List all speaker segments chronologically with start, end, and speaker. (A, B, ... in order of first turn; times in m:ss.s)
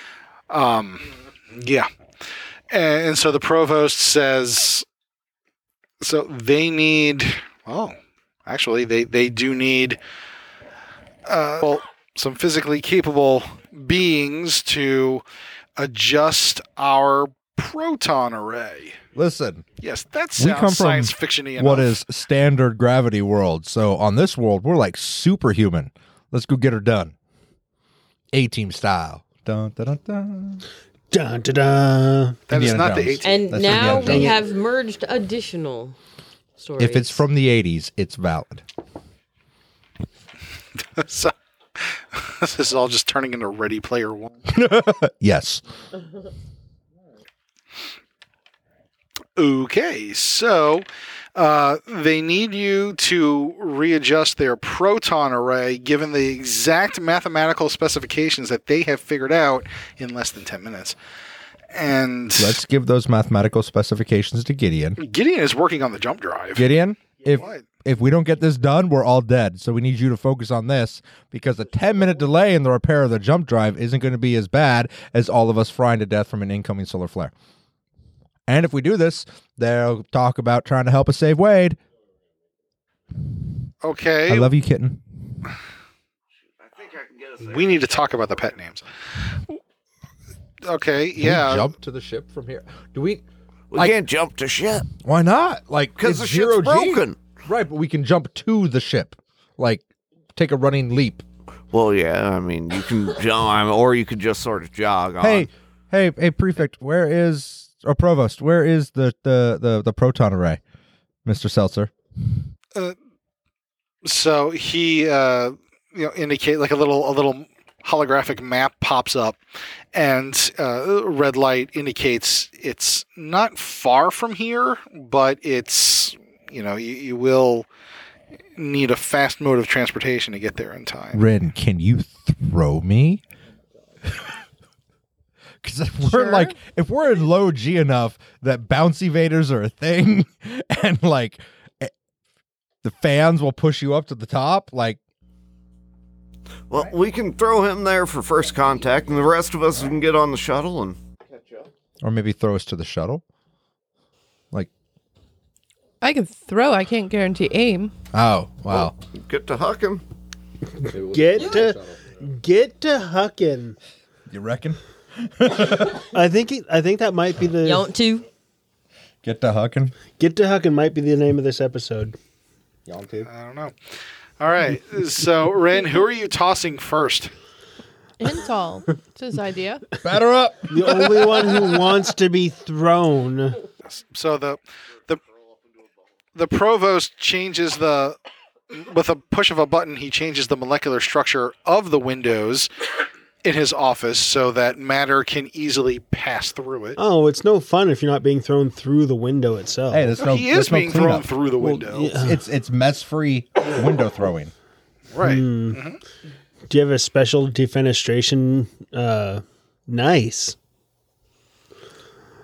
0:00.5-0:01.9 A
0:02.7-0:04.8 A
0:06.0-0:07.9 A
0:08.4-0:10.0 A
0:11.2-0:15.2 A
0:15.8-0:19.0 A
0:19.1-0:19.6 B
0:19.8-0:22.0 A
0:20.4-0:27.1 B
0:28.3-0:30.6 B
0:31.1-0:32.4 C
0:32.5-0:33.7 A
0:32.5-0:34.4 B
0:33.2-0:36.0 D
0:33.8-0:34.4 C
0:36.6-0:37.2 D
0:36.8-0:38.6 B
0:41.0-0:44.4 A
0:44.5-0:45.6 B
0:49.4-1:01.0 A
1:01.7-1:02.6 A
1:02.4-1:05.0 B
1:05.0-1:06.7 A
1:06.5-1:17.3 B
1:07.3-1:07.6 A
1:18.5-1:21.8 B
1:23.8-1:24.5 A
1:24.3-1:25.0 B
1:26.7-1:27.4 E
1:27.4-1:29.6 A
1:30.6-1:31.7 A
1:31.2-1:34.0 B
1:33.7-1:34.9 E
1:35.0-1:39.8 B
1:36.0-1:37.2 E
1:40.4-1:41.2 B
1:41.7-1:45.5 E
1:45.2-1:50.6 B
1:51.2-1:52.4 B
1:54.0-1:59.4 A
1:59.9-2:07.7 A
2:08.6-2:11.2 A
2:11.1-2:13.2 B
2:14.0-2:14.3 B
2:15.6-2:21.9 B
2:16.0-2:16.6 F
2:22.8-2:25.0 B
2:26.7-2:31.0 E
2:32.0-2:33.2 B
2:36.0-2:37.9 F
2:38.1-2:39.0 B
2:38.7-2:40.0 E
2:40.9-2:43.8 C
2:40.9-2:41.8 B
2:44.3-2:46.1 B
2:46.1-2:47.9 C
2:47.6-2:48.2 D
2:49.2-2:50.0 B
2:50.2-2:52.1 C
2:52.9-2:53.3 B
2:53.3-2:53.7 A
2:54.4-2:57.3 A
2:58.2-2:59.8 F
3:00.0-3:02.0 B
3:00.7-3:03.6 C
3:03.9-3:05.2 A
3:06.3-3:08.2 A
3:08.7-3:12.7 A
3:13.4-3:17.0 A
3:17.0-3:20.1 C
3:19.9-3:21.3 B
3:20.2-3:22.2 A
3:21.6-3:22.4 C
3:22.2-3:24.5 B
3:25.1-3:26.0 A
3:25.2-3:25.8 C
3:26.7-3:30.6 C